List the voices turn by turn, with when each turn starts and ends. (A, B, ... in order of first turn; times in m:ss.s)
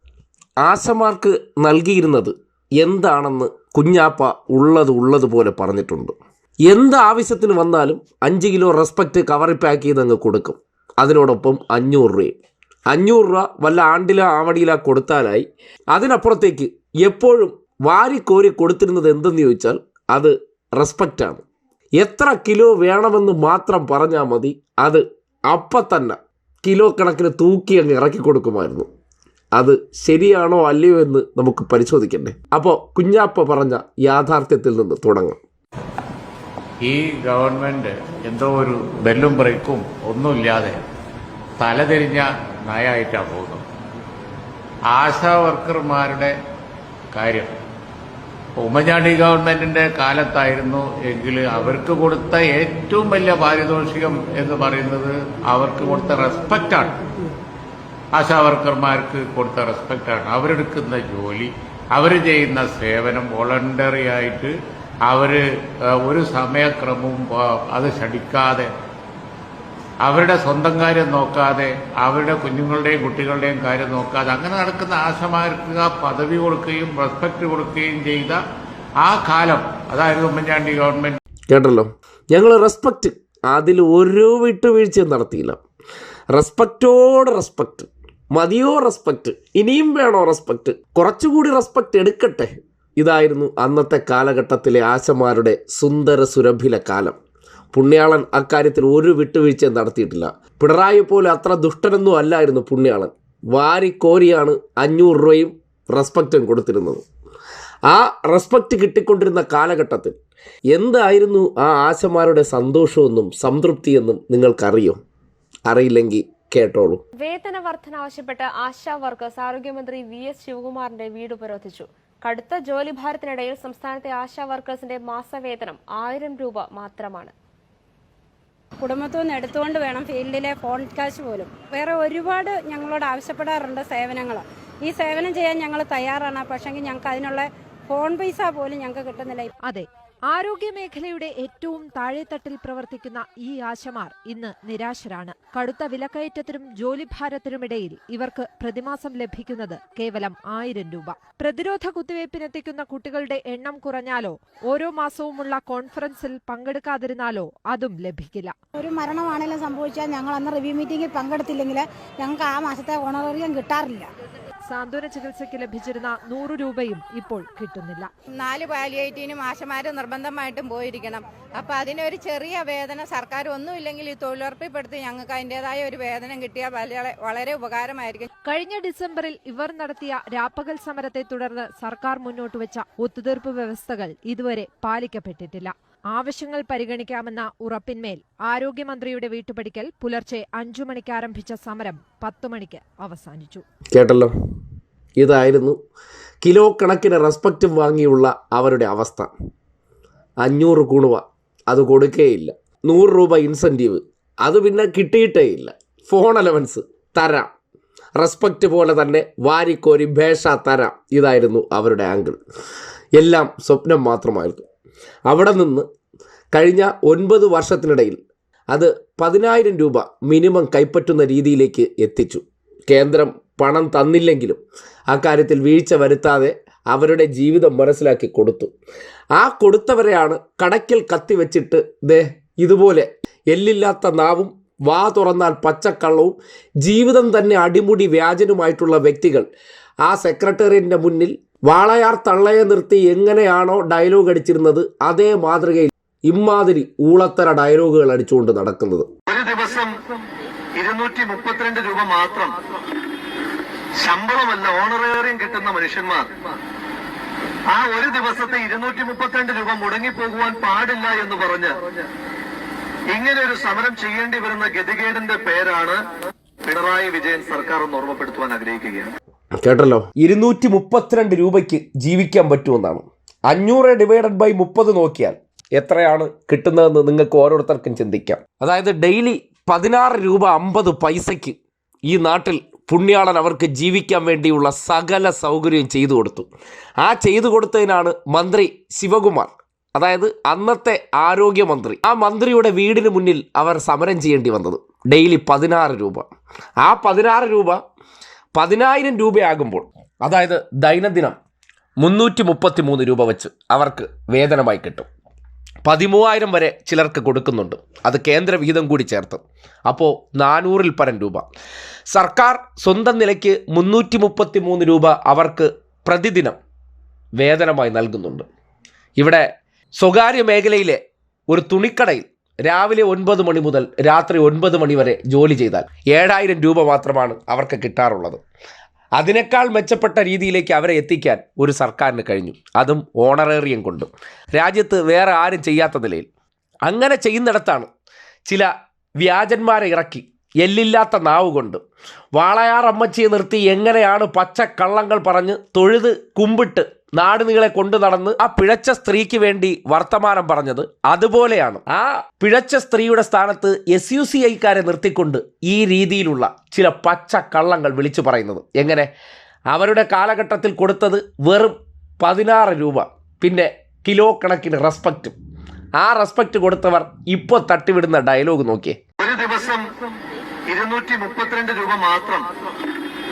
0:00.6-0:06.1 A
0:06.7-0:12.4 A
0:12.9-0:21.4 A
0:22.0-0:28.9 A
0:29.6-0:35.4 A
0:36.8-0:40.8 B
0:41.6-0:43.6 B
0:44.9-0:46.4 B
0:47.1-0:47.6 B
0:48.6-0:56.9 B
0:58.1-1:08.7 B
1:10.0-1:18.4 B
1:19.0-1:21.2 B
1:21.5-1:25.6 A
1:26.3-1:37.2 A
1:37.7-1:47.0 A
1:47.9-1:50.2 A
1:50.7-1:55.0 A
1:55.7-1:57.0 A
1:57.2-2:07.3 C
2:08.8-2:19.5 D
2:19.6-2:38.6 E
2:38.8-2:44.1 F
2:44.7-2:48.1 E
2:48.3-2:58.3 G
2:58.5-3:13.6 E
3:13.9-3:14.3 A
3:15.2-3:15.8 A
3:16.4-3:19.3 A
3:20.4-3:27.5 A
3:28.2-3:32.4 A
3:33.2-3:34.6 A
3:35.3-3:35.9 A
3:36.5-3:38.2 A
3:38.7-3:48.7 A
3:49.4-3:59.5 A
4:00.1-4:09.1 A
4:09.3-4:09.9 H
4:10.8-4:12.6 H
4:14.0-4:16.3 H
4:17.7-4:21.8 H
4:23.1-4:26.0 H
4:26.6-4:29.1 H
4:29.6-4:41.6 A
4:42.1-4:46.5 A
4:47.0-4:56.3 A
4:56.8-4:57.8 A
4:58.6-5:01.4 A
5:02.0-5:05.1 A
5:05.8-5:11.5 A
5:12.1-5:16.6 A
5:17.4-5:18.5 A
5:19.2-5:19.5 A
5:20.0-5:28.4 A
5:29.2-5:36.3 A
5:36.9-5:37.9 A
5:39.2-5:41.8 A
5:42.4-5:59.1 A
5:59.7-6:05.4 A
6:06.0-6:09.0 A
6:09.2-6:10.0 H
6:10.7-6:12.5 H